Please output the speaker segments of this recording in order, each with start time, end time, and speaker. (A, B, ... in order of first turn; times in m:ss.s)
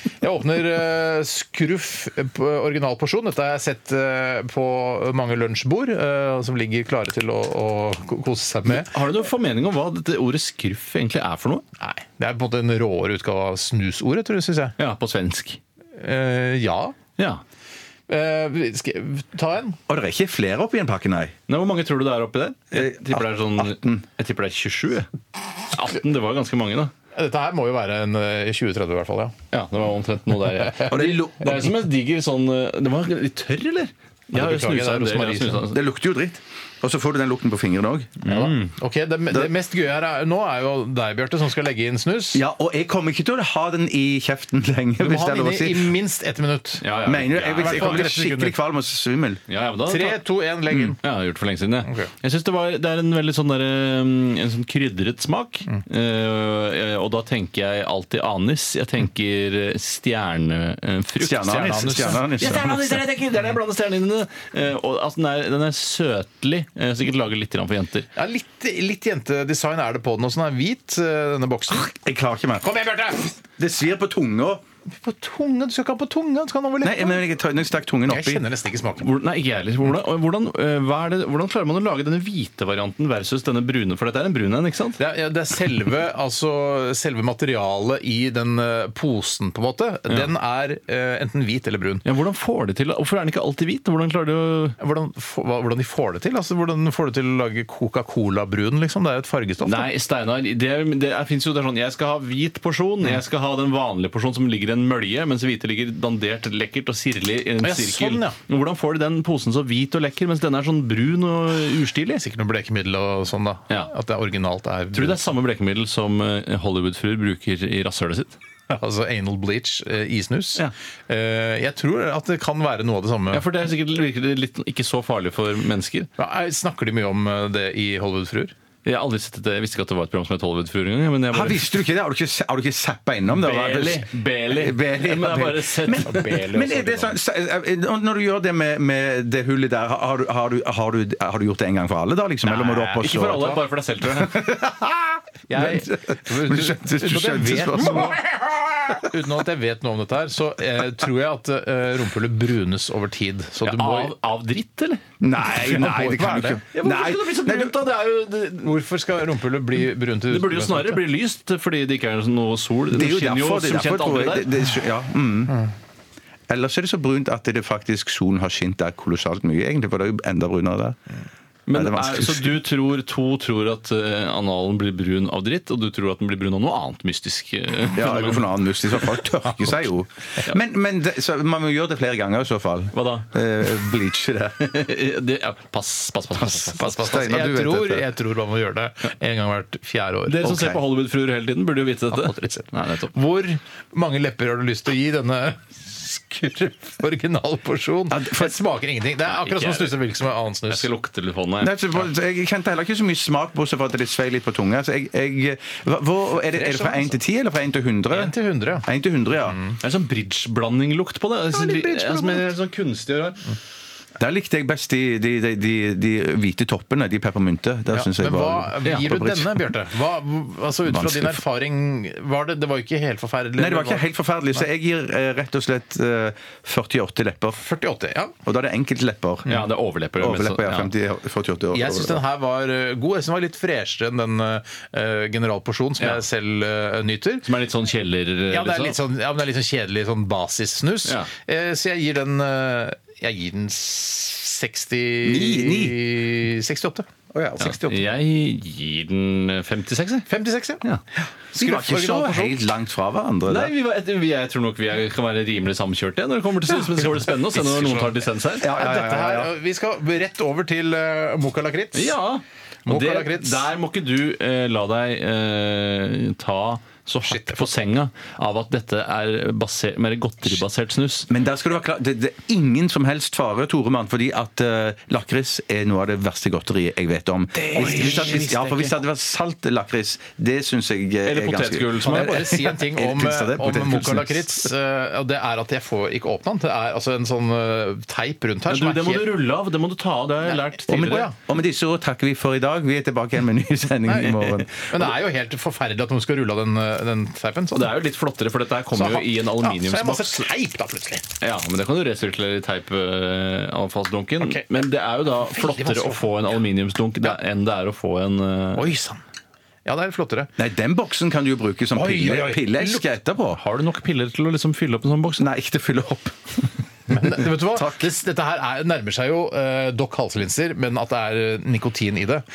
0:00.2-0:09.0 A
0:08.7-0:11.6 B
0:11.8-0:14.8 A
0:14.8-0:15.6 B
0:16.0-0:17.0 A
0:18.1-0:19.8 A
0:19.9-0:21.3 C
0:21.5-0:25.1 B
0:22.7-0:24.0 C
0:25.7-0:26.9 B
0:27.1-0:29.4 A
0:29.5-0:35.8 B
0:30.8-0:31.8 C
0:34.3-0:35.7 A
0:35.7-0:38.3 C
0:38.2-0:38.7 B
0:38.2-0:42.4 A
0:42.3-0:46.0 C
0:45.0-0:46.9 A
0:46.8-0:48.1 B
0:47.1-0:49.4 C
0:47.6-0:48.6 A
0:49.5-0:50.2 B
0:49.8-0:51.0 A
0:51.0-1:08.1 B
0:51.8-0:52.1 A
1:01.2-1:02.8 C
1:01.4-1:02.8 A
1:08.2-1:11.9 A
1:11.7-1:12.7 C
1:12.6-1:13.3 A
1:13.6-1:14.6 C
1:15.0-1:17.2 A
1:16.8-1:18.4 C
1:18.1-1:19.1 A
1:19.0-1:25.0 B
1:25.0-1:32.0 A
1:32.0-1:34.8 B
1:34.8-1:39.9 A
1:39.6-1:52.2 B
1:47.6-1:48.4 A
1:52.2-1:55.2 A
1:54.9-1:58.4 B
1:58.7-2:03.5 A
2:03.3-2:06.1 B
2:06.2-2:08.5 A
2:08.8-2:11.7 B
2:11.3-2:28.2 C
2:13.3-2:16.6 B
2:16.0-2:17.2 A
2:22.4-2:24.4 B
2:25.5-2:34.1 A
2:27.9-2:28.2 B
2:33.6-2:35.0 B
2:35.2-2:37.8 C
2:35.4-2:36.6 A
2:36.7-2:38.8 B
2:38.6-2:41.1 A
2:40.3-2:44.6 B
2:42.9-2:45.7 C
2:46.5-2:51.0 C
2:51.7-2:59.2 B
2:51.7-2:52.6 C
2:57.9-3:04.7 C
3:02.9-3:03.7 B
3:04.6-3:07.0 B
3:06.6-3:08.1 C
3:06.7-3:10.4 A
3:10.3-3:13.1 B
3:10.4-3:10.8 C
3:12.1-3:20.9 A
3:18.1-3:18.6 C
3:19.3-3:22.0 B
3:21.6-3:29.6 C
3:26.6-3:27.2 A
3:28.1-3:28.8 A
3:29.5-3:29.8 A
3:29.8-3:33.4 B
3:31.5-3:32.5 A
3:34.2-3:39.6 C
3:37.9-3:44.0 A
3:38.8-3:39.1 B
3:40.9-3:41.4 C
3:43.6-3:47.6 C
3:47.6-3:48.3 A
3:48.5-3:49.6 C
3:49.5-3:50.9 B
3:50.2-3:52.2 C
3:51.7-3:57.5 A
3:57.4-3:59.0 B
3:58.5-4:08.1 A
4:05.2-4:06.1 C
4:07.6-4:10.3 B
4:10.3-4:12.6 A
4:11.5-4:13.7 C
4:13.5-4:18.7 B
4:16.7-4:22.2 A
4:18.6-4:19.5 C
4:21.9-4:31.3 B
4:22.9-4:23.7 A
4:27.2-4:27.7 A
4:31.3-4:44.7 C
4:37.6-4:38.9 A
4:37.7-4:38.6 B
4:41.2-4:42.4 B
4:42.0-4:49.4 A
4:48.7-4:51.3 B
4:50.9-4:55.1 C
4:50.9-4:51.3 A
4:54.1-4:58.0 A
4:57.7-5:00.5 B
4:58.9-5:01.3 A
5:01.4-5:09.0 B
5:04.4-5:04.8 A
5:05.4-5:06.4 A
5:08.7-5:09.2 A
5:09.8-5:10.5 A
5:10.6-5:13.6 C
5:11.9-5:13.0 A
5:13.6-5:15.4 B
5:15.4-5:16.5 C
5:17.1-5:22.4 A
5:17.2-5:18.0 C